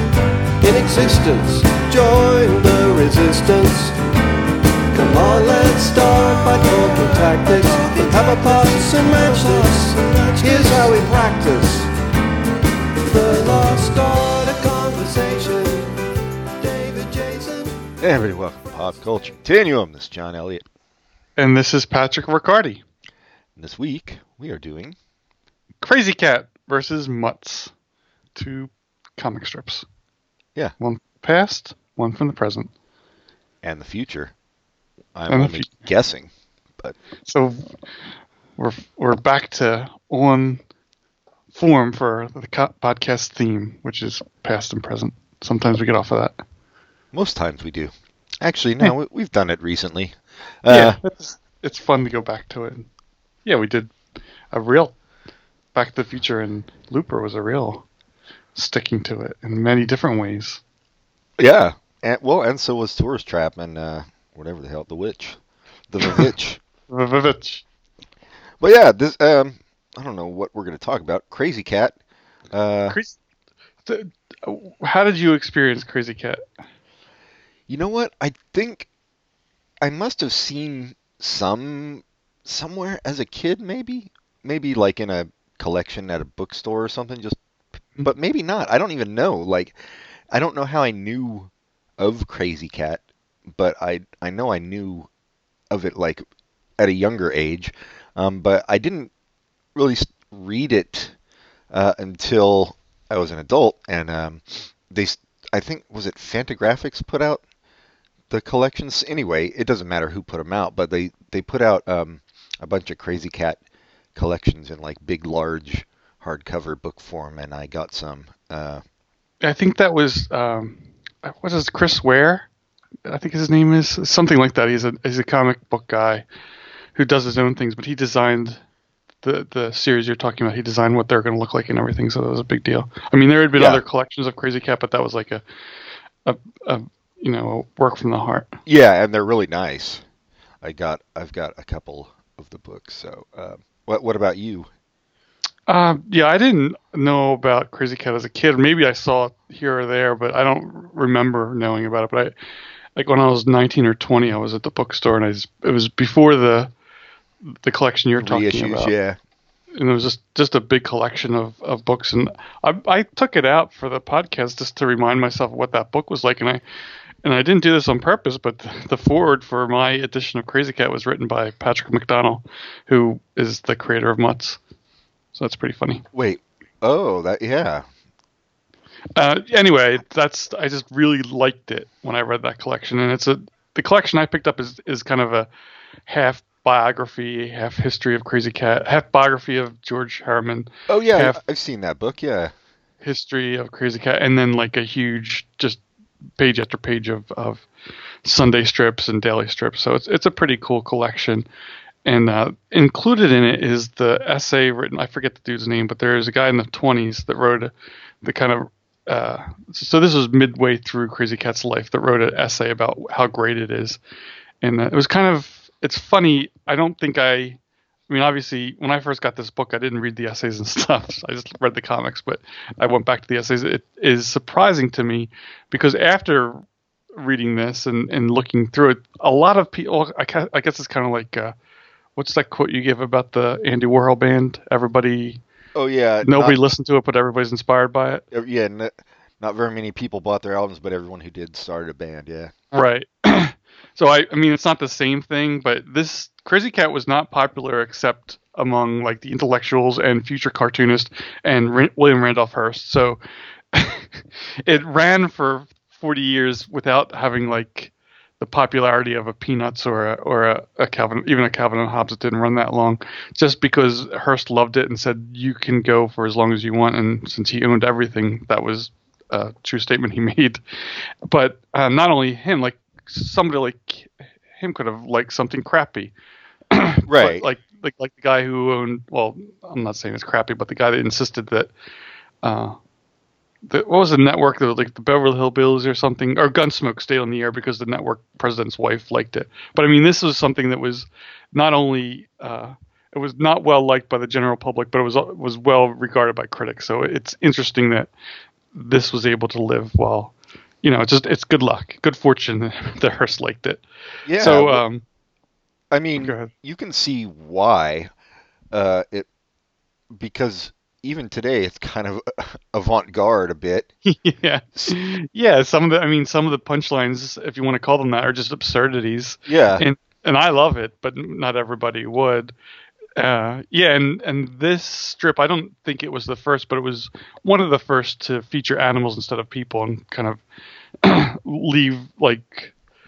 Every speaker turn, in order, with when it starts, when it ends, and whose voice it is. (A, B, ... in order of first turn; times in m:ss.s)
0:00.6-0:04.0 A
0:04.9-0:11.9 A
0:13.0-0:16.0 A
0:16.6-0:17.8 A
0:18.0-0:20.6 B
0:21.4-0:22.8 C
0:23.6-0:25.0 B
0:25.8-0:27.7 C
0:28.3-0:29.8 C
0:30.8-0:32.7 C
0:33.6-0:34.3 B
0:35.1-0:36.3 B
0:35.3-0:35.8 C
0:37.2-0:37.8 C
0:38.6-0:40.6 C
0:41.5-0:46.4 C
0:47.1-0:51.0 B
0:50.7-0:52.9 C
0:53.4-0:53.9 C
0:54.5-0:54.9 C
0:55.7-0:57.8 C
0:58.5-1:00.6 C
1:01.4-1:05.4 B
1:05.9-1:06.6 B
1:06.9-1:07.6 C
1:08.6-1:12.0 B
1:12.5-1:13.0 B
1:12.9-1:13.2 C
1:13.8-1:16.4 C
1:17.7-1:18.9 B
1:19.8-1:27.4 B
1:28.0-1:29.8 B
1:30.3-1:35.1 B
1:35.7-1:36.2 B
1:36.8-1:39.1 B
1:39.7-1:41.1 B
1:41.7-1:47.4 B
1:48.3-1:53.6 B
1:54.1-1:58.8 B
1:59.4-2:02.5 C
2:03.0-2:06.2 C
2:06.9-2:08.6 C
2:09.2-2:15.4 C
2:13.5-2:13.8 B
2:16.2-2:18.5 C
2:18.6-2:20.0 B
2:20.6-2:24.7 B
2:25.7-2:32.3 C
2:33.0-2:36.7 C
2:37.6-2:38.9 C
2:38.2-2:39.2 B
2:39.8-2:46.6 C
2:47.2-2:54.6 C
2:55.3-2:56.0 C
2:56.1-2:57.8 B
2:59.2-3:05.5 C
3:06.1-3:11.4 C
3:10.9-3:12.5 B
3:13.0-3:15.8 C
3:16.4-3:17.6 C
3:18.2-3:21.5 C
3:22.0-3:27.7 C
3:28.2-3:34.0 C
3:34.6-3:46.6 C
3:47.2-3:51.5 C
3:52.2-3:55.4 C
3:55.7-3:56.6 B
3:56.2-3:58.2 C
3:58.3-4:02.5 B
4:02.7-4:13.2 C
4:13.7-4:36.1 C
4:36.7-4:41.7 C
4:37.1-4:37.5 B
4:42.4-4:42.8 C
4:43.7-4:58.1 C
4:58.7-5:03.8 C
5:04.2-5:04.8 B
5:04.4-5:05.0 C
5:05.9-5:08.1 B
5:06.2-5:06.5 C
5:08.7-5:09.3 B
5:10.1-5:13.9 B
5:14.0-5:22.5 C
5:19.5-5:19.8 B
5:23.2-5:30.4 C
5:31.0-5:32.7 C